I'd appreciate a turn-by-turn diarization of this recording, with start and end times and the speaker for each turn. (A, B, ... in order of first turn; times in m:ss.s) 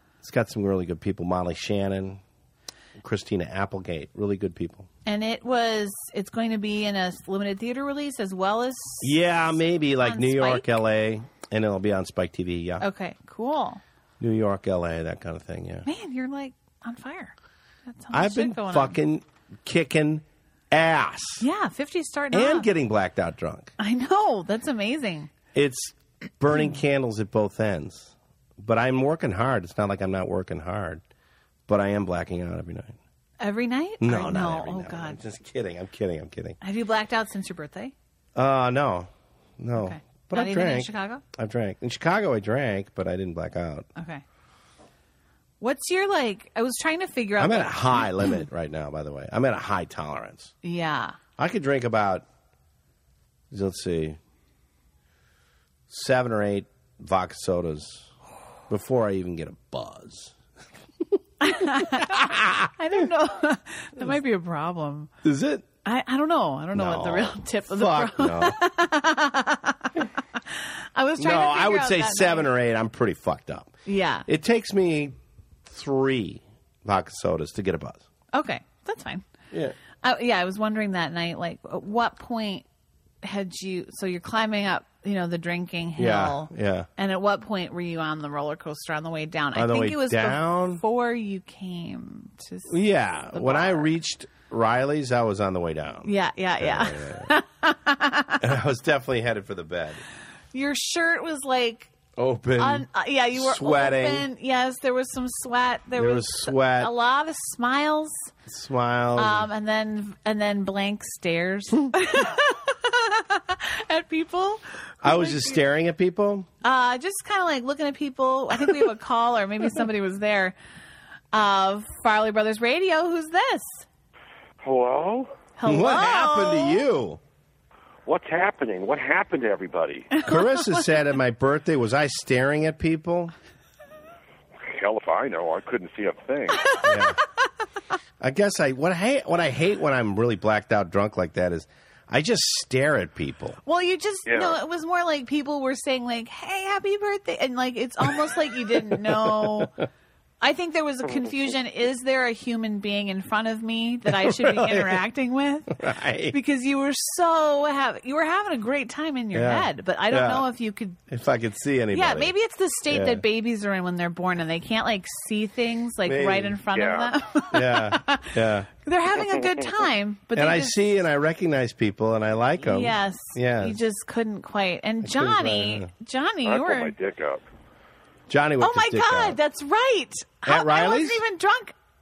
0:00.2-0:02.2 A
0:03.0-0:04.9 A
0:05.0-0:09.2 B
0:09.0-0:12.8 A
0:10.0-0:10.6 B
0:12.8-0:13.8 B
0:14.2-0:15.9 A
0:15.8-0:17.3 B
0:17.9-0:19.0 B
0:18.1-0:21.4 A
0:21.4-0:22.7 B
0:22.3-0:23.7 A
0:23.8-0:25.3 B
0:25.5-0:31.0 A
0:31.7-0:33.0 A
0:33.4-0:35.2 B
0:34.0-0:36.6 A
0:36.6-0:37.9 B
0:38.3-0:43.9 A
0:39.8-0:41.2 B
0:44.0-0:44.2 B
0:45.6-0:48.1 B
0:47.4-0:50.5 A
0:50.6-0:51.2 B
0:51.4-0:52.2 A
0:53.5-0:54.2 A
0:55.9-0:58.1 A
0:58.7-1:00.4 A
1:01.1-1:02.7 A
1:01.4-1:05.1 B
1:05.2-1:05.7 A
1:05.8-1:12.5 B
1:06.7-1:08.6 A
1:11.2-1:18.0 A
1:13.8-1:14.3 B
1:18.3-1:19.2 B
1:20.0-1:22.6 B
1:23.2-1:32.8 B
1:26.0-1:26.9 A
1:29.5-1:30.8 A
1:32.7-1:37.3 A
1:33.3-1:33.9 B
1:36.0-1:38.5 B
1:38.4-1:40.0 A
1:40.5-1:41.9 B
1:42.2-1:44.3 A
1:42.6-1:48.3 B
1:46.0-1:46.9 A
1:48.5-1:49.5 A
1:49.1-1:55.6 B
1:55.0-1:56.5 A
1:56.6-2:00.6 B
2:01.3-2:03.8 B
2:04.6-2:05.3 C
2:05.6-2:06.8 B
2:05.6-2:07.2 A
2:08.0-2:10.1 C
2:10.1-2:10.8 B
2:10.2-2:13.3 A
2:14.6-2:16.8 C
2:16.7-2:17.1 B
2:16.8-2:17.2 A
2:18.2-2:23.6 A
2:23.6-2:29.7 B
2:24.3-2:24.6 C
2:28.7-2:29.7 A
2:30.4-2:41.0 B
2:34.1-2:35.0 A
2:35.7-2:36.4 A
2:39.3-2:40.5 A
2:41.1-2:42.3 A
2:41.9-2:50.8 B
2:42.9-2:43.2 A
2:46.0-2:46.6 A
2:46.7-2:47.1 C
2:47.5-2:48.7 A
2:50.3-2:53.8 A
2:52.6-2:56.9 B
2:55.0-2:55.9 A
2:56.4-2:57.4 C
2:58.3-2:59.4 A
2:58.6-3:01.7 B
3:00.4-3:01.2 A